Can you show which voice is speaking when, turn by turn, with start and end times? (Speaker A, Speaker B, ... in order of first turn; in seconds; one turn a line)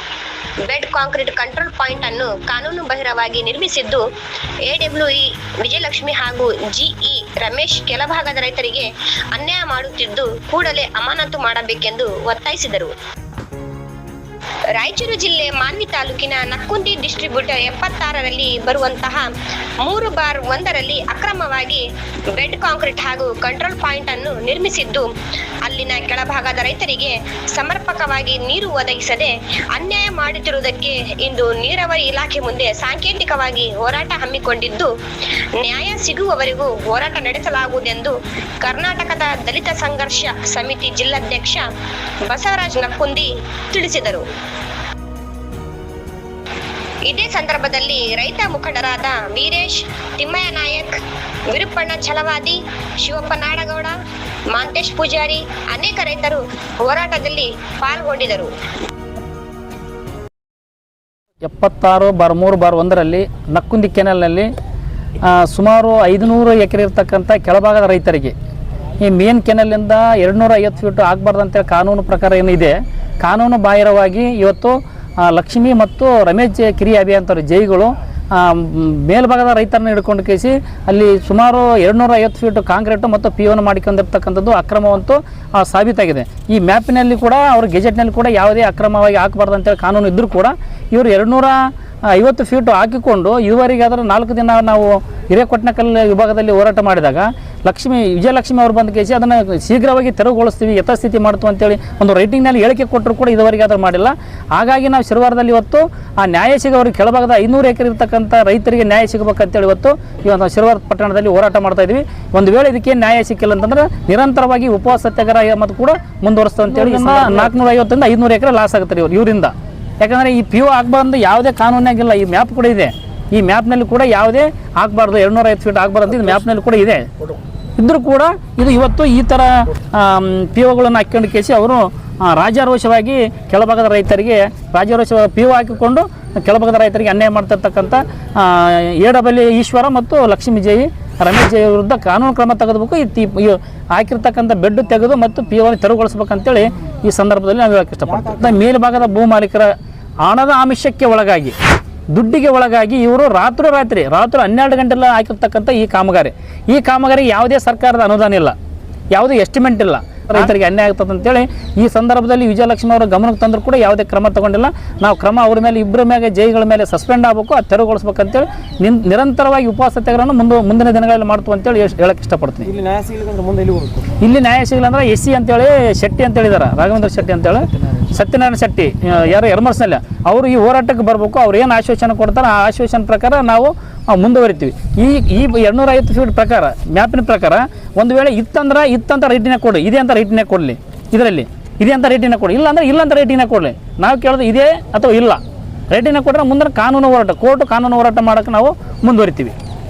Speaker A: 0.7-4.0
Speaker A: 4.7-12.9
Speaker A: 14.7-19.3
Speaker A: 19.8-25.1
Speaker A: 25.6-34.9
Speaker A: 35.6-41.6
Speaker A: 42.2-44.3
Speaker A: 47.1-51.0
Speaker A: 51.5-54.0
Speaker A: 54.5-58.5
Speaker B: 61.4-64.5
Speaker B: 65.2-68.3
Speaker B: 69.0-127.1
Speaker C: 116.9-117.3
Speaker B: 127.8-151.6
Speaker C: 148.1-148.5
Speaker B: 152.1-158.6
Speaker B: 159.1-172.7
Speaker C: 172.7-174.1
Speaker B: 174.2-199.5